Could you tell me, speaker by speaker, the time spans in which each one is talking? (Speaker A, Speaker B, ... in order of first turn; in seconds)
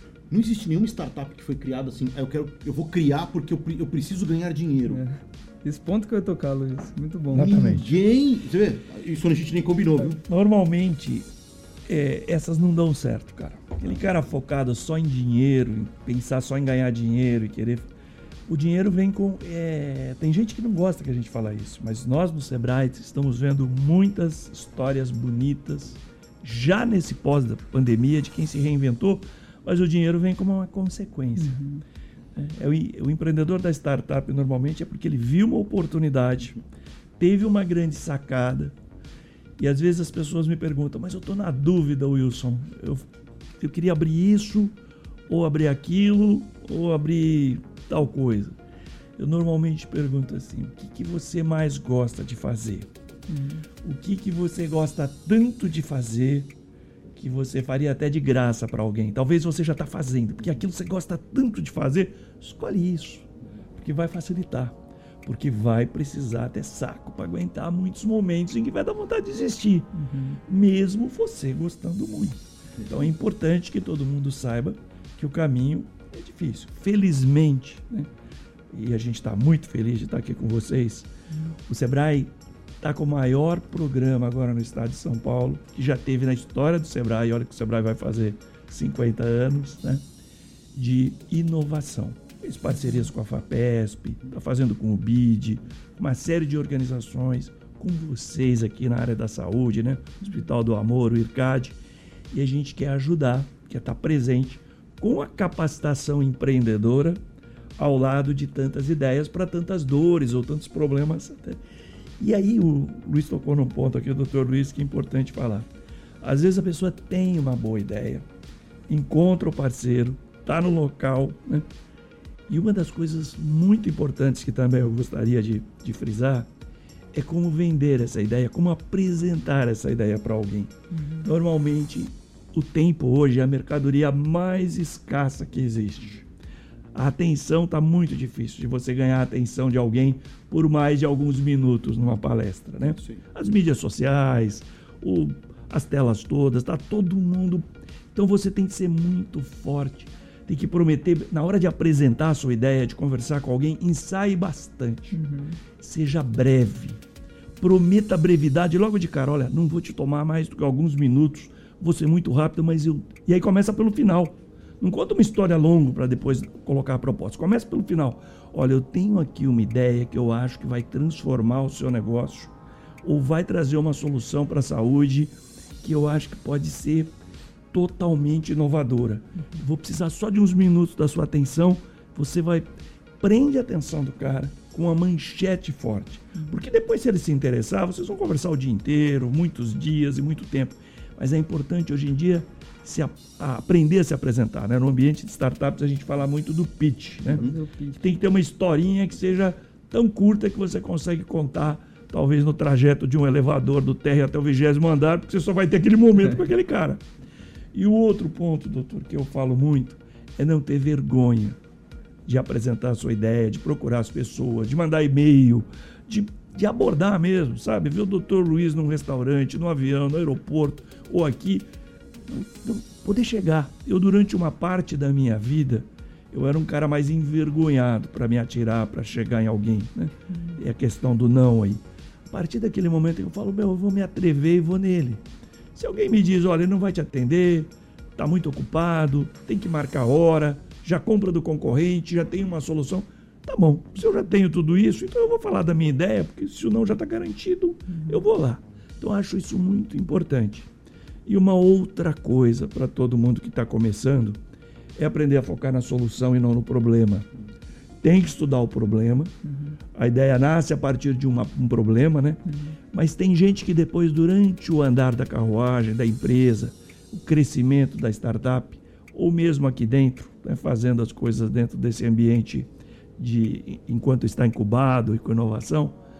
Speaker A: 0.3-5.0, 7.3-10.2, 142.9-143.2, 197.3-197.6
Speaker B: 4.9-7.8, 31.4-31.8, 53.3-53.6, 70.0-70.4, 130.9-131.3, 155.1-155.6, 197.3-198.0, 259.4-259.8, 262.4-262.8
Speaker C: 7.3-7.9, 10.2-11.3, 11.9-17.9, 18.5-31.6, 32.4-36.6, 37.2-38.7, 39.6-43.1, 43.6-44.7, 45.3-48.5, 49.2-52.9, 53.8-56.5, 57.1-69.9, 70.5-78.1, 78.7-81.1, 81.7-90.0, 90.7-101.8, 102.3-107.2, 107.8-111.6, 112.2-115.7, 116.2-118.2, 118.9-121.7, 122.5-126.5, 127.1-130.7, 131.2-136.2, 136.9-155.2, 155.8-157.0, 157.6-172.5, 173.0-177.1, 177.7-182.7, 183.2-197.4, 198.0-207.0, 207.7-211.6, 212.2-221.7, 222.3-235.2, 235.7-250.7, 251.2-254.4, 255.0-257.3, 258.0-259.3, 259.9-276.0